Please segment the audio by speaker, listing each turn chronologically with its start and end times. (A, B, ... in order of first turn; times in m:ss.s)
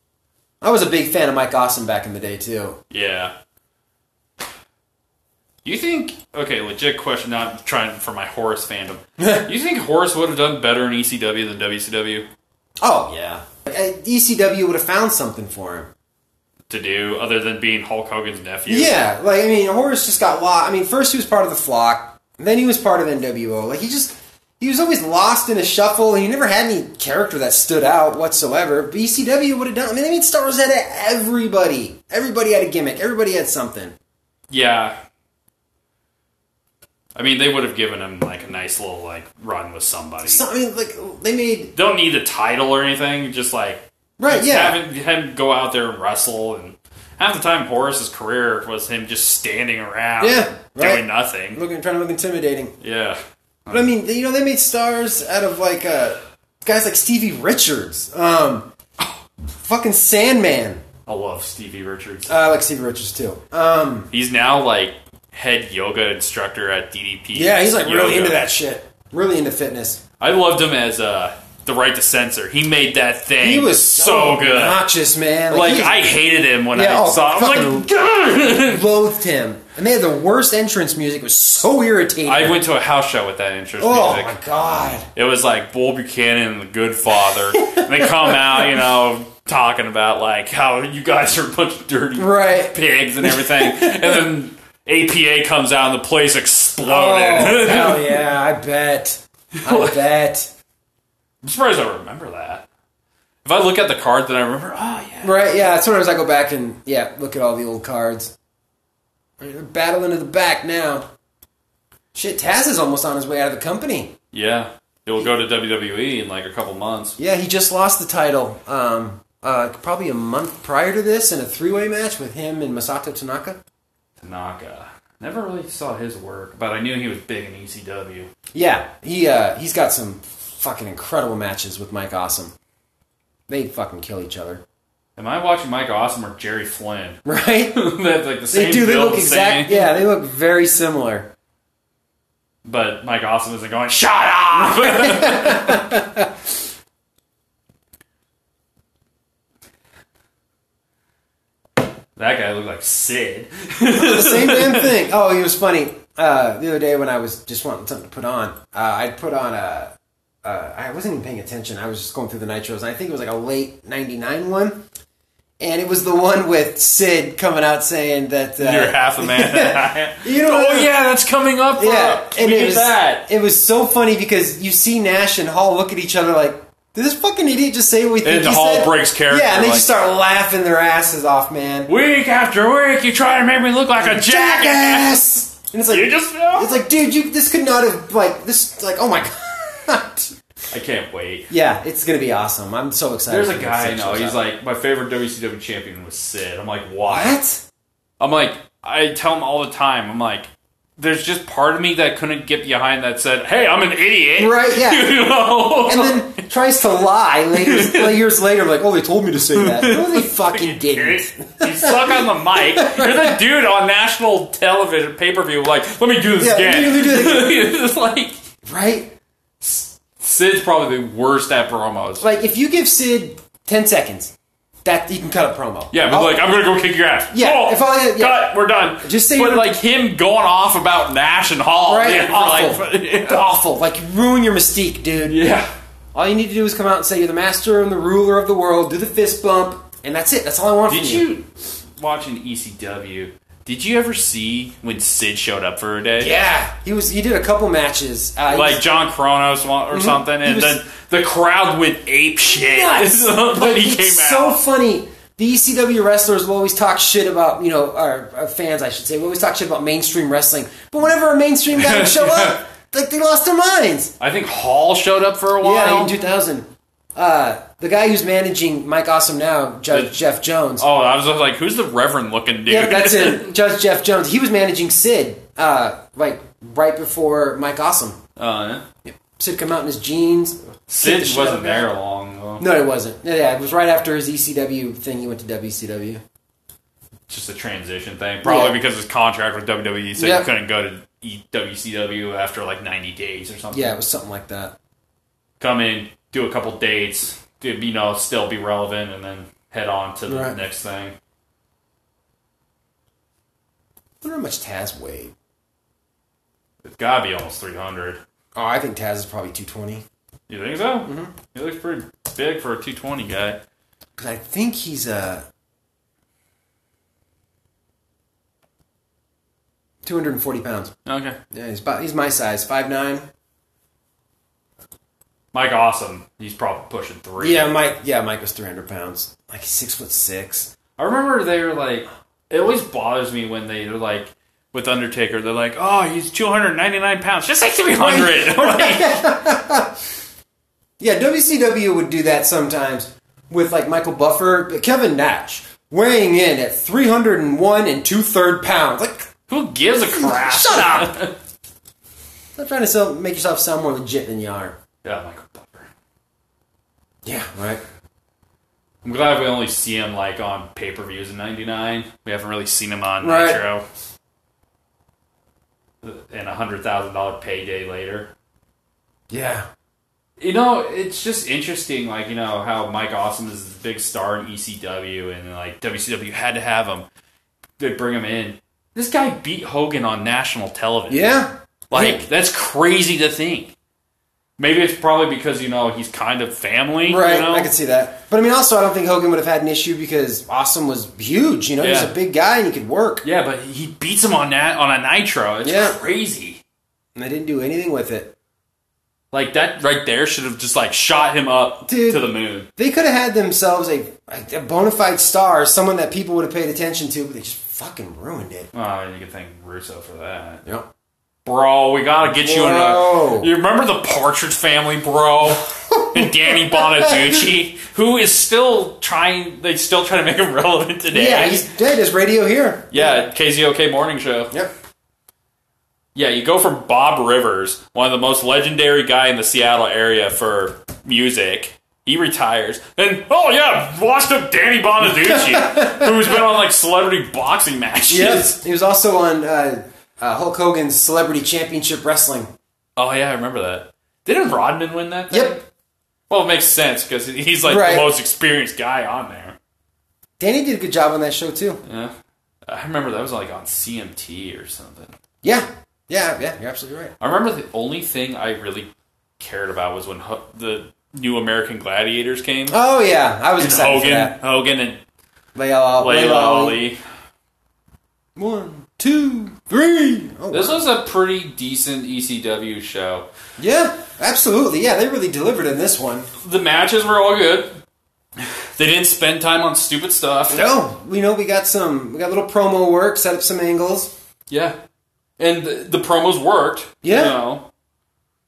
0:00.6-0:02.8 A
0:02.9-0:03.3 B
0:05.6-0:12.2 B
0:09.2-0:09.5 A
0:12.8-0:15.9 A
0:16.7-0:18.9 B
0:18.7-0:33.9 A
0:34.5-0:35.0 B
0:37.1-0:40.4 B
0:40.2-0:41.7 A
0:41.7-0:51.6 B
0:44.2-0:44.8 A
0:50.2-0:52.7 A
0:52.8-0:53.9 B
0:53.7-0:58.7 A
0:59.6-1:00.8 A
1:01.1-1:02.4 B
1:02.3-1:04.1 A
1:04.1-1:08.4 B
1:07.3-1:10.0 A
1:10.2-1:14.8 B
1:13.4-1:16.2 A
1:15.5-1:18.8 B
1:16.7-1:22.6 A
1:22.2-1:24.4 B
1:23.8-1:25.1 A
1:25.1-1:38.2 B
1:27.5-1:28.6 A
1:32.2-1:34.2 A
1:36.8-1:40.5 A
1:39.6-1:39.9 B
1:41.4-1:42.6 B
1:43.4-1:45.5 B
1:45.2-1:48.3 A
1:49.4-1:51.1 A
1:52.1-1:54.1 A
1:54.3-1:57.2 B
1:57.2-2:03.6 A
2:04.2-2:08.3 B
2:08.5-2:12.5 A
2:13.5-2:14.6 A
2:15.2-2:17.2 B
2:17.2-2:17.8 A
2:17.7-2:19.9 B
2:18.5-2:21.3 A
2:22.6-2:25.9 B
2:24.5-2:26.3 A
2:32.2-2:35.0 B
2:33.9-2:39.9 A
2:40.4-2:44.8 A
2:45.6-2:50.9 A
2:48.6-2:53.3 B
2:51.8-3:01.9 A
2:58.2-2:59.9 B
3:01.9-3:05.2 B
3:04.0-3:10.3 A
3:05.9-3:06.8 B
3:10.7-3:11.5 B
3:11.5-3:14.4 A
3:13.3-3:17.4 B
3:17.1-3:17.6 A
3:18.2-3:26.4 B
3:24.4-3:25.2 A
3:25.8-3:33.4 A
3:27.6-3:28.2 B
3:29.5-3:38.4 B
3:36.4-3:37.6 A
3:38.6-3:39.1 A
3:39.6-3:42.2 B
3:42.2-3:44.3 A
3:44.8-3:46.4 A
3:45.9-3:53.4 B
3:47.3-3:49.7 A
3:51.9-3:55.4 A
3:55.3-3:55.7 B
3:56.1-4:01.3 A
4:00.9-4:06.3 B
4:06.2-4:08.8 A
4:08.5-4:14.6 B
4:09.9-4:10.8 A
4:12.5-4:24.1 A
4:21.8-4:22.6 B
4:24.2-4:26.2 B
4:25.6-4:30.8 A
4:30.8-4:33.5 B
4:32.7-4:38.2 A
4:38.4-4:38.8 B
4:39.0-4:41.9 A
4:40.9-4:42.7 B
4:42.6-4:46.2 A
4:47.3-4:54.0 B
4:48.4-4:48.8 A
4:50.2-4:50.5 A
4:53.7-4:54.7 A
4:55.6-5:01.1 B
5:00.3-5:00.6 A
5:04.2-5:05.3 A
5:06.8-5:08.2 B
5:08.5-5:10.0 A
5:10.5-5:13.6 B
5:11.0-5:11.3 A
5:14.2-5:15.4 A
5:20.0-5:20.9 A
5:21.0-5:21.4 B
5:21.5-5:23.3 A
5:25.5-5:27.7 B
5:27.4-5:30.7 A
5:31.0-5:39.4 B
5:38.0-5:39.9 A
5:41.0-5:49.3 A
5:49.5-5:51.3 B
5:50.1-5:51.1 A
5:52.6-5:54.8 A
5:55.0-5:55.9 B
5:57.2-5:57.8 A
5:59.0-6:03.8 B
6:03.2-6:03.6 A
6:06.0-6:08.3 B
6:09.3-6:09.7 A
6:10.4-6:17.0 B
6:17.8-6:23.7 B
6:21.1-6:22.2 A
6:24.6-6:27.7 B
6:27.0-6:33.2 A
6:31.8-6:32.1 B
6:33.2-6:36.6 B
6:35.6-6:36.0 A
6:37.1-6:38.3 A
6:39.3-6:42.7 B
6:41.8-6:42.2 A
6:42.8-6:48.7 A
6:48.7-6:50.6 B
6:51.4-7:01.6 B
6:52.3-6:53.5 A
6:55.9-6:57.4 A
7:01.1-7:03.2 A
7:02.9-7:04.5 B
7:06.1-7:18.5 B
7:15.0-7:16.3 A
7:18.1-7:22.5 A
7:23.0-7:25.6 B
7:25.3-7:25.6 A
7:26.3-7:29.6 B
7:27.6-7:28.1 A
7:30.4-7:31.8 A
7:31.8-7:32.1 B
7:32.6-7:35.1 B
7:35.4-7:37.1 A
7:37.2-7:42.8 B
7:42.7-7:44.3 A
7:43.6-7:45.0 B
7:45.5-7:46.8 A
7:46.0-7:47.0 B
7:48.4-7:50.8 A
7:50.5-7:53.3 B
7:53.6-7:56.3 A
7:56.4-7:57.8 B
7:58.8-8:00.6 B
8:00.5-8:04.1 A
8:04.5-8:04.8 B
8:05.4-8:07.7 B
8:07.0-8:07.4 A